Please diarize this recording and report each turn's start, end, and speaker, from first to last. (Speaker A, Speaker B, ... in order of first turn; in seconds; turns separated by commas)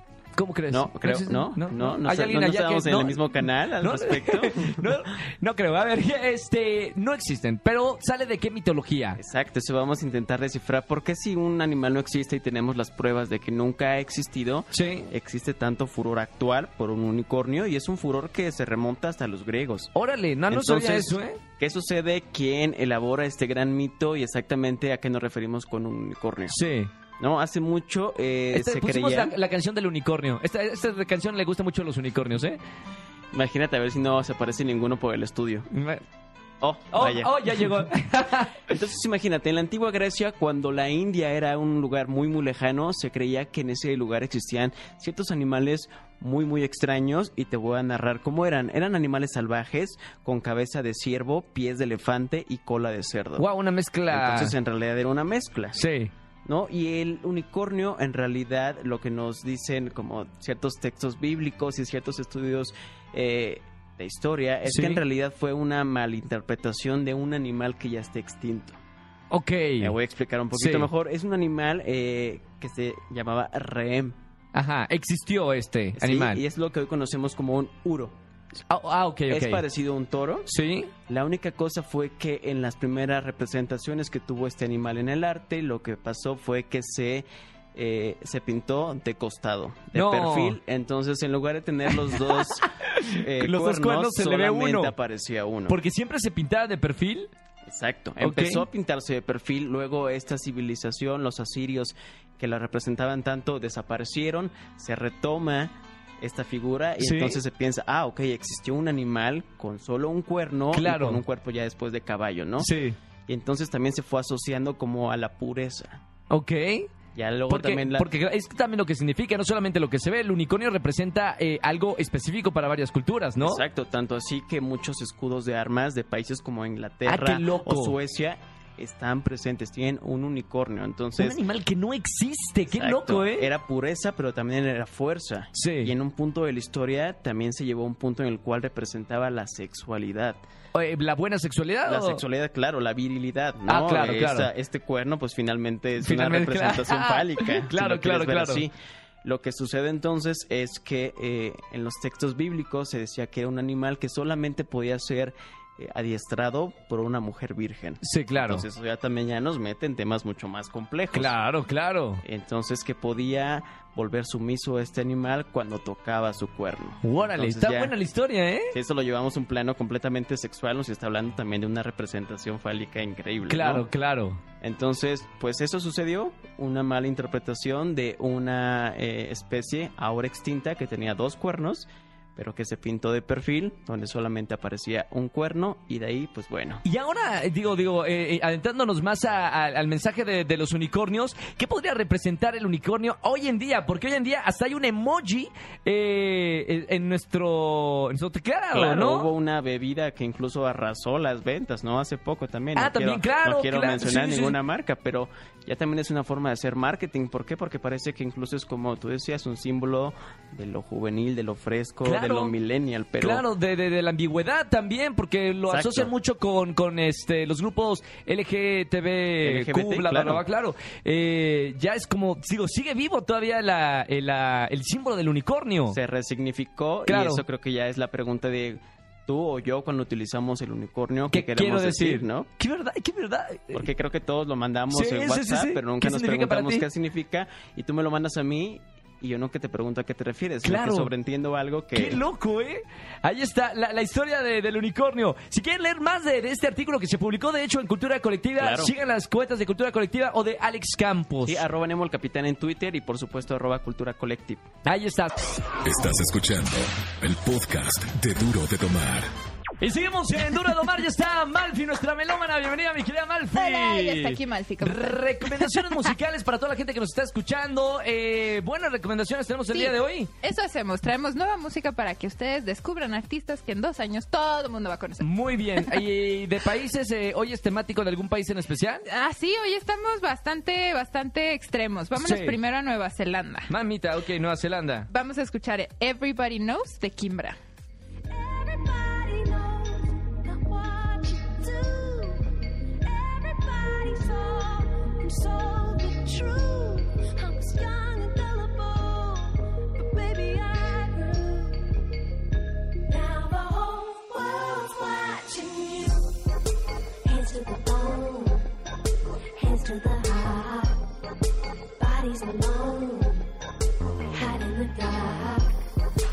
Speaker A: 0.3-9.2, Speaker B: 0.7-5.0, Speaker B: 9.2-19.9, Speaker A: 14.7-15.1, Speaker A: 19.9-21.4, Speaker B: 20.5-26.6, Speaker A: 26.5-26.9, Speaker B: 27.2-29.4, Speaker A: 28.5-32.6, Speaker B: 33.3-35.7, Speaker A: 35.7-36.0, Speaker B: 36.6-37.9, Speaker A: 36.9-38.6, Speaker B: 38.7-53.5, Speaker A: 53.4-54.5, Speaker B: 54.1-55.8, Speaker A: 55.7-56.1, Speaker B: 56.4-68.8, Speaker A: 64.6-65.0, Speaker A: 69.3-69.9, Speaker B: 69.8-74.2, Speaker A: 70.5-70.9, Speaker A: 74.5-76.4, Speaker B: 76.0-78.2, Speaker A: 78.7-79.6, Speaker B: 79.3-80.5, Speaker A: 80.5-80.9, Speaker B: 81.1-95.8, Speaker A: 89.9-90.6, Speaker A: 92.1-94.9, Speaker A: 95.7-97.3, Speaker B: 97.7-112.7, Speaker A: 98.2-98.6, Speaker A: 107.0-107.4, Speaker A: 110.7-111.2, Speaker A: 112.6-113.0, Speaker B: 113.3-116.0, Speaker A: 116.3-116.9, Speaker B: 117.1-118.1, Speaker A: 117.5-123.6, Speaker B: 123.4-131.4, Speaker A: 127.0-128.0, Speaker A: 131.2-133.5, Speaker B: 132.7-140.4, Speaker A: 135.5-135.9, Speaker A: 140.7-142.2, Speaker B: 141.8-148.7, Speaker A: 143.7-144.5, Speaker A: 146.0-148.6, Speaker B: 149.2-161.3, Speaker A: 158.0-158.7, Speaker A: 161.1-162.2, Speaker B: 162.2-167.9, Speaker A: 167.0-168.7, Speaker B: 168.7-173.9, Speaker A: 173.5-174.4, Speaker B: 174.6-186.8, Speaker A: 186.8-199.3, Speaker B: 198.7-213.4, Speaker A: 202.8-204.6, Speaker A: 212.0-212.5, Speaker A: 213.2-226.0, Speaker B: 215.7-216.1, Speaker B: 219.4-220.4, Speaker B: 225.9-232.5, Speaker A: 227.1-227.4, Speaker A: 231.3-233.8, Speaker B: 233.7-242.2, Speaker A: 234.9-236.8, Speaker A: 240.6-241.1, Speaker A: 241.9-251.6, Speaker B: 248.6-248.9, Speaker B: 251.4-254.7, Speaker A: 254.8-255.3, Speaker C: 255.8-259.3, Speaker A: 259.8-270.3, Speaker D: 263.5-266.1, Speaker D: 269.7-276.0, Speaker A: 275.2-279.0, Speaker D: 279.1-283.7, Speaker A: 282.1-282.6, Speaker A: 283.7-285.1, Speaker D: 285.1-287.6, Speaker E: 288.3-292.5, Speaker E: 293.0-301.9, Speaker E: 303.0-306.3, Speaker E: 307.2-308.6, Speaker E: 309.6-311.0, Speaker E: 312.0-313.4, Speaker E: 314.3-315.8